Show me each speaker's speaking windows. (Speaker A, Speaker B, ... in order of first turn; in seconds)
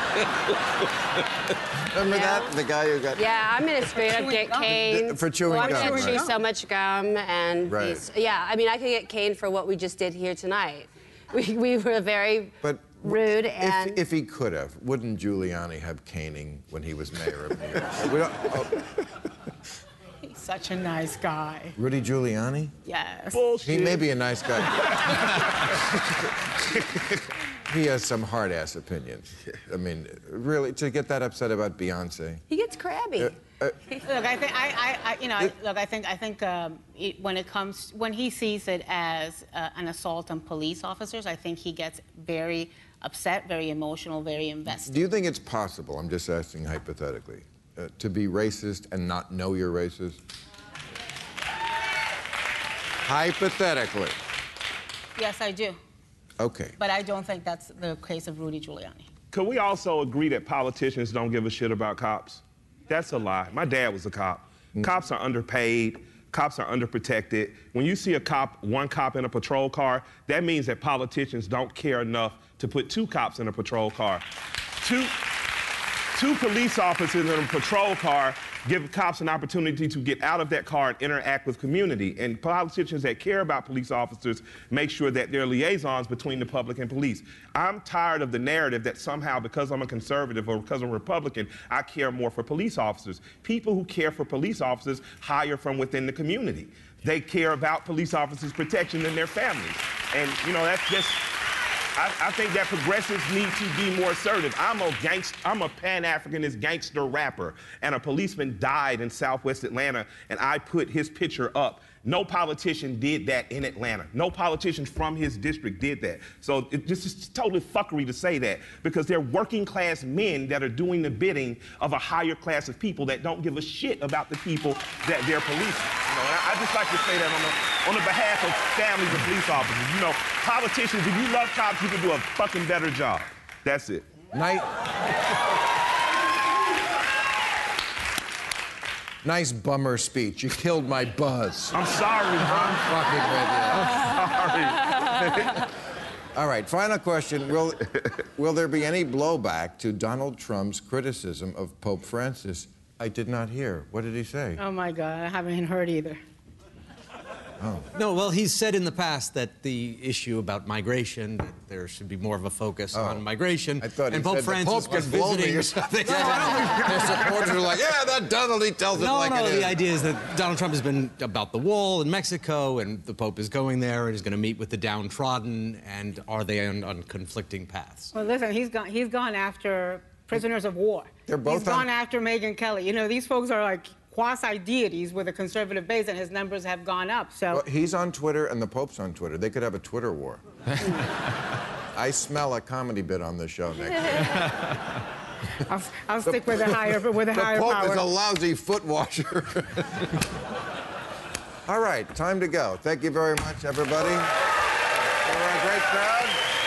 Speaker A: 1.9-3.5, 4.7-6.2, 7.6-8.0, 12.6-18.8, 21.8-22.7, 23.6-25.6, 27.7-32.4, 33.2-33.8, 44.8-50.2, 53.0-54.1, 56.4-56.8, 134.3-134.7, 139.2-141.8, 142.4-143.9, 146.3-154.6, 157.6-157.9, 162.9-163.2, 163.8-169.8, 181.3-181.9, 187.5-190.4, 191.9-194.5, 196.2-196.8, 197.3-200.1, 201.7-204.3, 205.2-206.4
Speaker B: 2.0-2.5, 3.1-14.0, 32.5-33.3
Speaker C: 3.8-4.8, 5.5-6.3, 20.2-21.7, 22.9-23.4, 34.1-45.0, 55.1-55.8, 56.8-59.1, 154.6-156.2, 178.1-187.6, 195.7-198.0
Speaker D: 23.3-24.1, 59.3-74.2, 74.8-75.1, 76.1-101.2, 102.0-134.1, 141.7-142.9, 143.7-145.7
Speaker E: 157.9-167.6, 168.9-178.1